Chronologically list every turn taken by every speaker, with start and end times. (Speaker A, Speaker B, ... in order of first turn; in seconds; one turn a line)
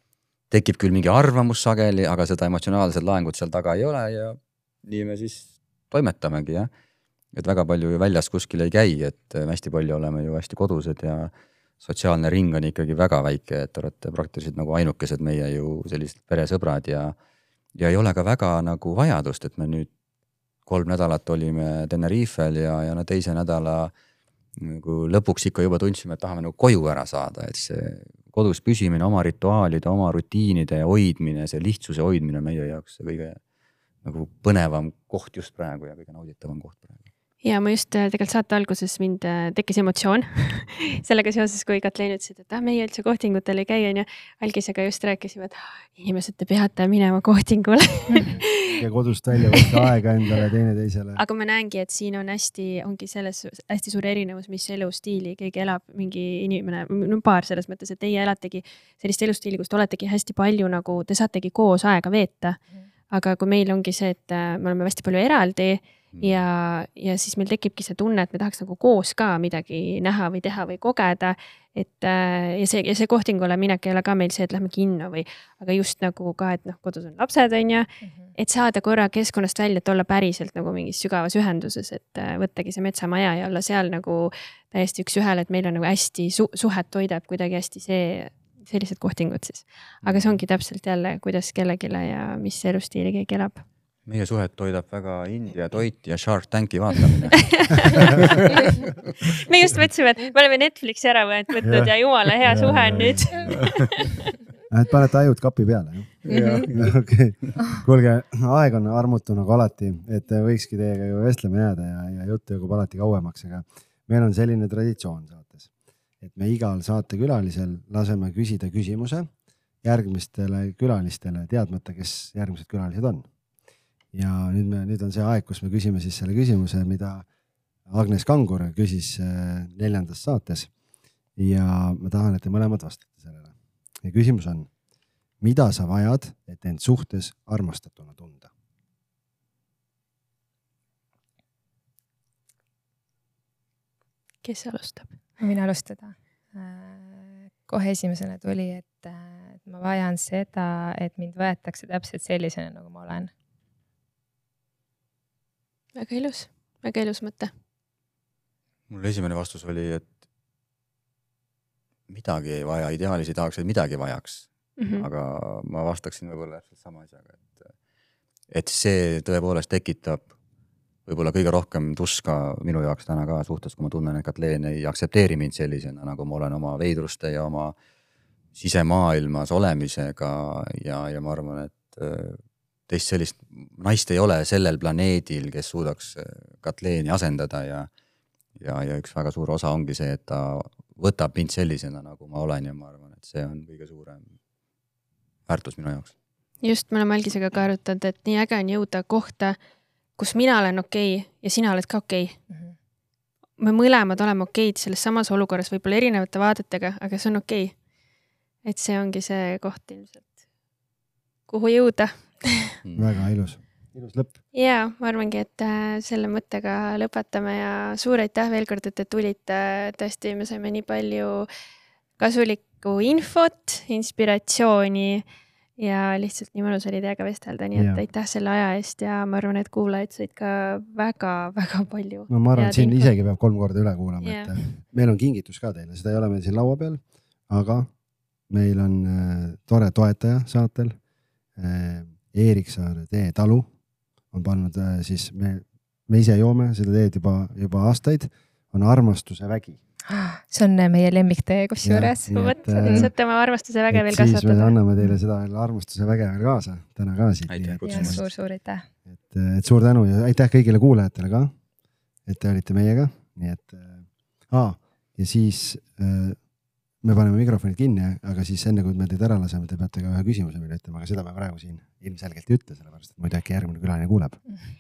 Speaker A: 0.5-6.7
Speaker A: 7.3-11.3
Speaker A: 11.8-17.1
Speaker A: 17.8-19.9
Speaker A: 20.7-23.9
Speaker A: 24.6-33.4
Speaker A: 34.0-37.0
Speaker B: 37.4-48.8
Speaker C: 48.7-51.2
Speaker B: 51.2-93.6
Speaker A: 90.0-90.4
Speaker A: 94.1-98.9
Speaker B: 97.5-98.5
Speaker B: 99.3-104.1
Speaker C: 101.6-101.9
Speaker C: 102.5-103.7
Speaker C: 104.7-115.7
Speaker D: 106.3-106.7
Speaker C: 116.2-119.3
Speaker C: 119.8-123.3
Speaker C: 124.1-127.3
Speaker C: 127.9-130.7
Speaker C: 131.4-133.5
Speaker C: 134.0-134.7
Speaker C: 135.4-138.5
Speaker B: 144.4-145.1
Speaker D: 145.4-153.3
Speaker B: 155.9-157.5
Speaker A: 158.9-160.1
Speaker A: 162.1-167.7
Speaker B: 164.8-165.1
Speaker A: 168.5-170.3
Speaker A: 171.1-177.7
Speaker A: 178.6-187.9
Speaker A: 188.6-194.2
Speaker A: 195.5-196.1
Speaker B: 196.6-199.6
Speaker B: 200.2-202.4
Speaker B: 203.6-207.8
Speaker B: 208.7-210.3
Speaker B: 211.5-212.7
Speaker A: 212.8-213.1
Speaker C: 212.9-214.4
Speaker B: 214.5-221.5
Speaker B: 222.2-225.3
Speaker B: 225.8-233.1
Speaker C: 227.7-228.0
Speaker C: 232.3-237.9
Speaker B: 234.2-234.6
Speaker C: 238.5-241.0
Speaker C: 241.6-243.7
Speaker C: 244.3-249.8
Speaker D: 250.1-252.3
Speaker C: 251.8-253.1
Speaker B: 252.3-254.7
Speaker C: 253.9-258.2
Speaker A: 257.5-258.2
Speaker D: 257.8-258.9
Speaker C: 259.1-261.5
Speaker C: 262.3-266.4
Speaker C: 267.0-274.4